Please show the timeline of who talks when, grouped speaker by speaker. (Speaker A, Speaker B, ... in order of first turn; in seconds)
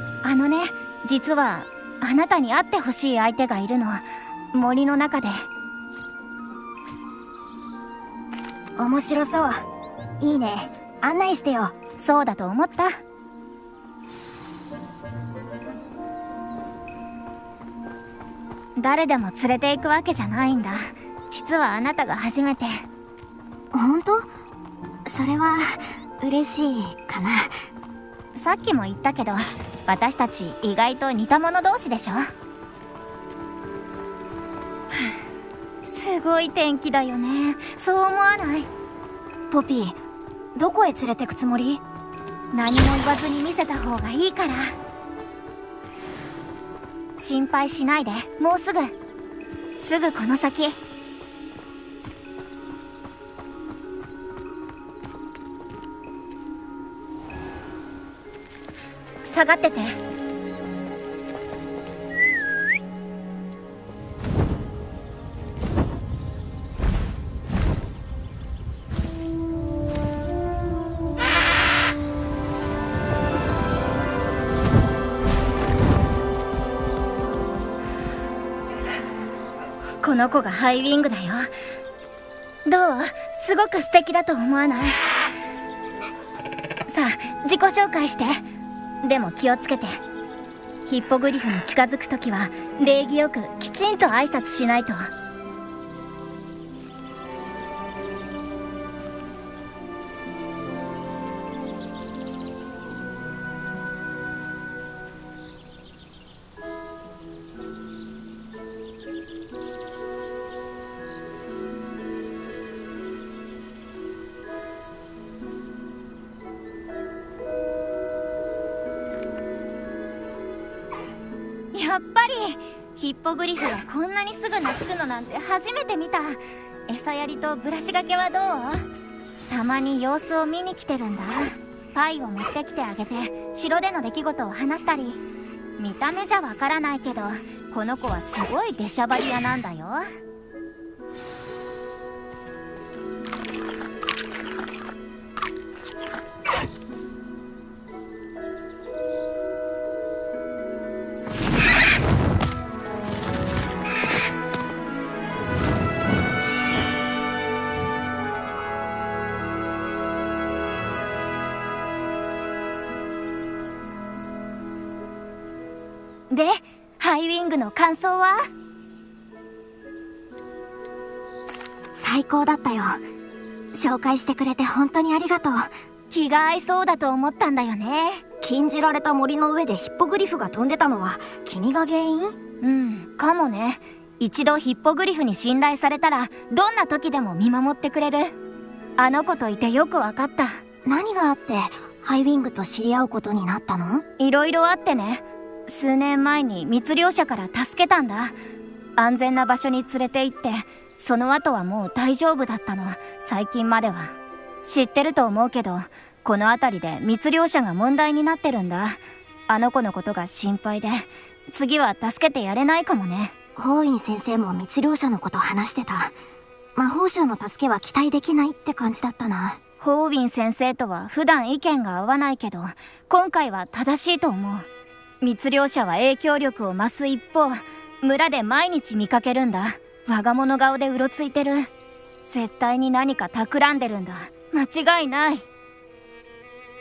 Speaker A: 0.2-5.3, 12.0-13.0, 18.8-22.8, 28.4-32.3, 35.9-38.7, 42.5-44.7, 47.2-48.9, 49.8-50.8, 59.2-60.0, 80.0-81.5, 82.7-85.0, 86.9-88.4, 89.0-90.0, 90.9-95.1, 121.7-128.8, 129.5-135.2, 135.8-140.0, 166.3-168.4, 176.1-178.2, 182.6-188.3, 189.0-190.6, 194.2-198.3, 199.0-213.3, 219.8-224.7, 225.2-231.7, 232.3-235.4
Speaker B: 8.8-9.7, 10.2-11.8, 23.7-24.3, 25.1-27.5, 39.5-40.0, 40.6-41.8, 171.9-173.0, 173.7-175.7, 178.4-182.3, 190.9-194.0, 213.6-216.2, 216.8-219.6